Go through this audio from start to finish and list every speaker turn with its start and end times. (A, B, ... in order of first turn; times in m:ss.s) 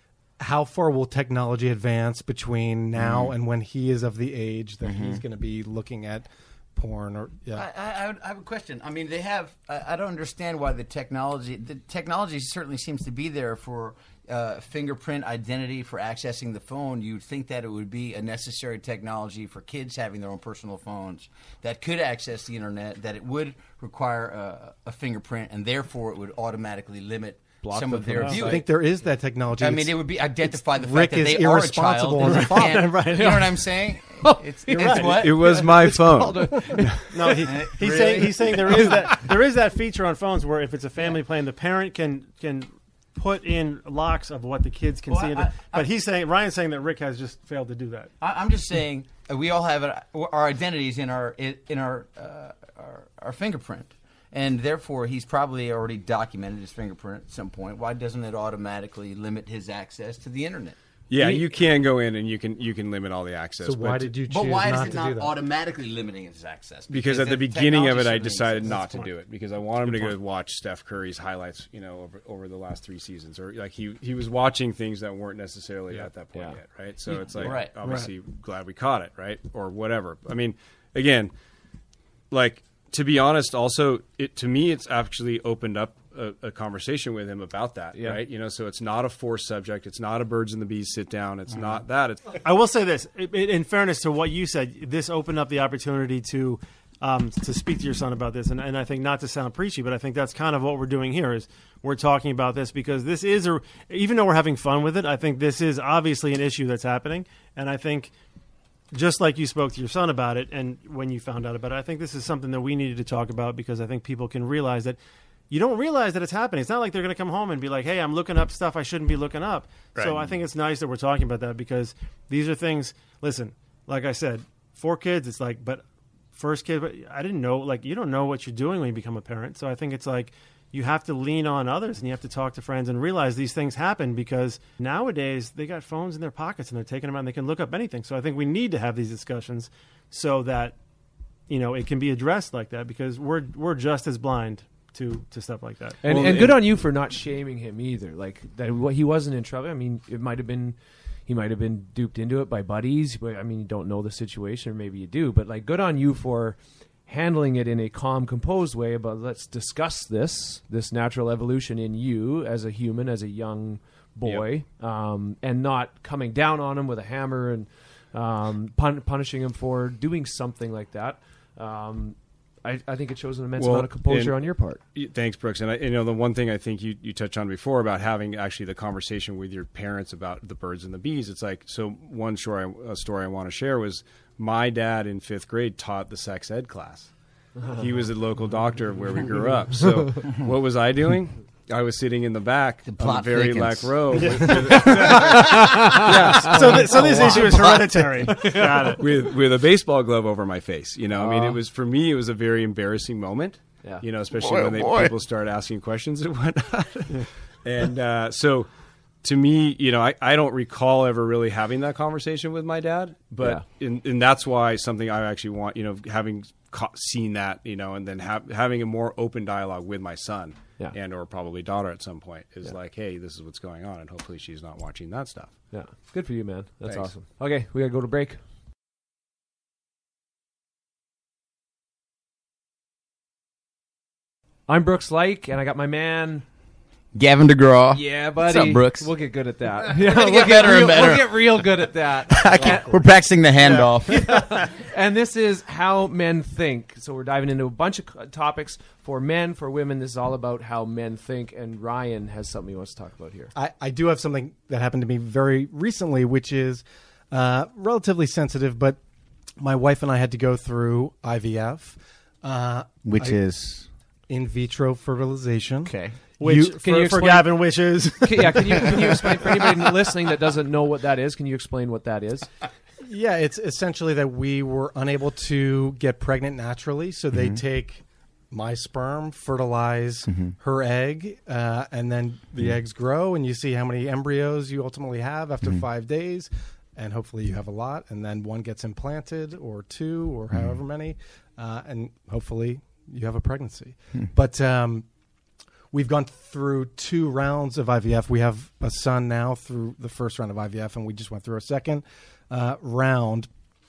0:00.4-0:07.7 A
0:03.0-0:03.3 B
0:04.8-0:05.2 B
0:07.5-0:28.7 B
0:27.6-0:28.6 C
0:28.3-0:32.8 A
0:29.6-0:35.5 B
0:32.2-0:33.5 D
0:33.1-0:37.4 C
0:34.7-0:35.1 D
0:35.0-0:37.1 E
0:37.1-0:48.1 D
0:37.4-0:39.0 B
0:38.7-0:38.9 C
0:45.1-0:45.9 B
0:48.2-1:00.8 B
1:01.1-1:04.1 E
1:03.6-1:05.3 A
1:04.3-1:09.1 B
1:06.9-1:21.3 E
1:16.3-1:16.6 C
1:17.1-1:17.7 B
1:17.8-1:18.1 D
1:22.3-1:32.4 E
1:27.9-1:28.2 C
1:32.4-1:48.1 D
1:48.9-1:55.0 D
1:55.5-2:20.8 D
1:59.9-2:00.3 E
2:21.5-2:26.0 D
2:26.0-2:30.8 C
2:26.0-2:26.6 E
2:31.3-2:54.8 C
2:53.6-3:07.1 E
3:07.7-3:15.4 E
3:12.8-3:18.0 B
3:14.1-3:15.4 D
3:14.7-3:17.6 C
3:16.0-3:16.9 E
3:16.0-3:19.0 D
3:18.3-3:19.0 C
3:19.0-3:28.7 E
3:21.1-3:21.6 C
3:24.3-3:25.1 B
3:29.2-3:45.6 E
3:45.7-3:48.4 C
3:46.8-3:47.1 E
3:54.7-3:56.4 C
3:57.1-3:59.1 B
3:57.9-4:03.0 C
3:59.8-4:01.7 B
4:02.3-4:04.5 B
4:03.6-4:04.6 D
4:04.1-4:13.5 C
4:13.5-4:19.0 A
4:19.6-4:23.4 A
4:23.0-4:23.9 B
4:24.3-4:27.2 A
4:25.8-4:26.2 B
4:26.4-4:29.7 D
4:26.8-4:27.6 C
4:28.2-4:32.5 C
4:33.0-4:55.0 A
4:37.3-4:37.6 B
4:40.3-4:40.5 B
4:55.9-5:03.5 A